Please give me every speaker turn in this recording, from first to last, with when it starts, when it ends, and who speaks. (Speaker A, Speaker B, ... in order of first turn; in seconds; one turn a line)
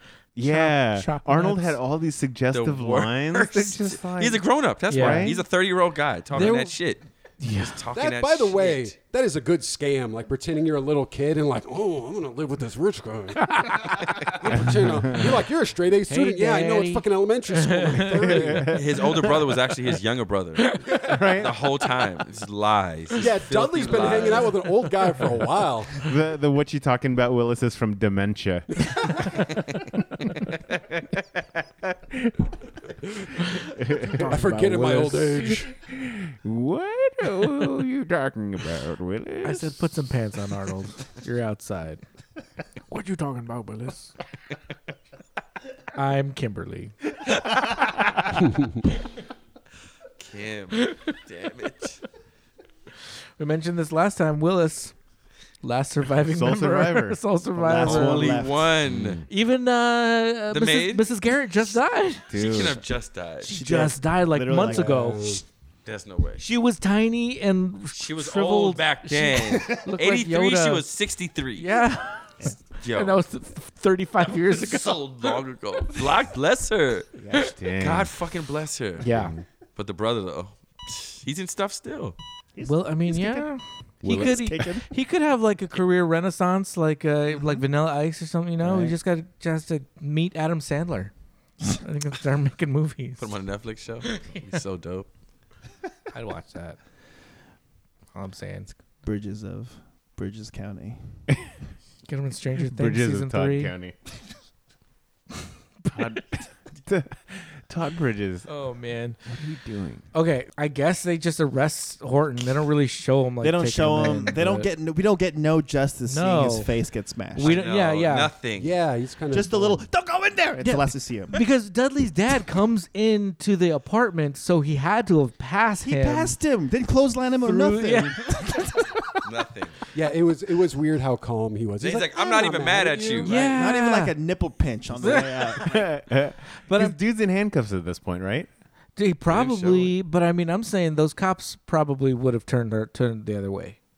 Speaker A: 0.4-5.4
Speaker B: 0.4-1.8
Speaker C: 2.5-8.9
Speaker B: 4.9-5.4
Speaker B: 6.3-6.8
Speaker B: 7.4-7.8
Speaker D: 8.0-18.8
Speaker B: 13.5-14.3
Speaker A: 14.6-15.3
Speaker B: 16.1-18.7
Speaker A: 18.2-19.1
Speaker C: 18.7-24.6
Speaker B: 20.6-21.1
Speaker A: 21.1-21.6
Speaker D: 23.2-26.1
Speaker A: 26.0-29.4
Speaker A: 31.0-32.5
Speaker A: 33.8-39.7
Speaker D: 34.0-35.7
Speaker B: 34.2-35.5
Speaker B: 39.4-42.0
Speaker B: 42.9-44.1
Speaker B: 45.9-47.0
Speaker C: 50.2-52.0
Speaker B: 50.8-51.1
Speaker B: 53.4-54.9
Speaker B: 55.6-58.3
Speaker A: 56.2-57.2
Speaker E: 57.6-58.8
Speaker C: 57.9-59.2
Speaker A: 58.9-59.2
Speaker B: 59.3-62.3
Speaker C: 60.5-61.1
Speaker A: 62.3-62.8
Speaker C: 62.3-63.5
Speaker B: 63.4-65.4
Speaker E: 63.4-65.1
Speaker D: 64.6-65.4
Speaker C: 65.9-66.5
Speaker B: 66.4-70.8
Speaker C: 68.0-71.8
Speaker B: 71.6-75.3
Speaker C: 72.8-73.2
Speaker C: 74.5-77.1
Speaker E: 77.2-77.5
Speaker A: 77.3-78.1
Speaker C: 77.7-79.1
Speaker B: 79.0-79.3
Speaker A: 79.0-79.4
Speaker C: 79.8-82.2
Speaker E: 82.5-83.5
Speaker B: 82.6-91.1
Speaker E: 84.0-84.9
Speaker E: 88.6-89.0
Speaker B: 91.7-93.4
Speaker C: 93.2-95.1
Speaker B: 94.0-94.5
Speaker B: 96.1-96.8
Speaker B: 98.1-98.8
Speaker E: 99.0-101.2
Speaker B: 102.1-103.7
Speaker A: 102.6-104.0
Speaker B: 105.8-106.2
Speaker A: 105.9-108.5
Speaker B: 108.5-109.2
Speaker A: 109.3-110.0
Speaker B: 110.1-114.7
Speaker E: 113.4-117.6
Speaker B: 116.1-116.7
Speaker B: 117.3-118.3
Speaker C: 117.4-118.8
Speaker D: 118.6-119.9
Speaker E: 119.3-121.4
Speaker B: 120.6-126.3
Speaker E: 125.8-128.9
Speaker B: 127.4-128.7
Speaker C: 129.2-129.8
Speaker D: 129.9-133.6
Speaker C: 131.8-133.3
Speaker B: 133.2-134.1
Speaker E: 133.3-135.9
Speaker B: 135.0-135.7
Speaker A: 135.6-138.5
Speaker B: 136.6-137.0
Speaker B: 139.0-143.8
Speaker C: 139.3-139.9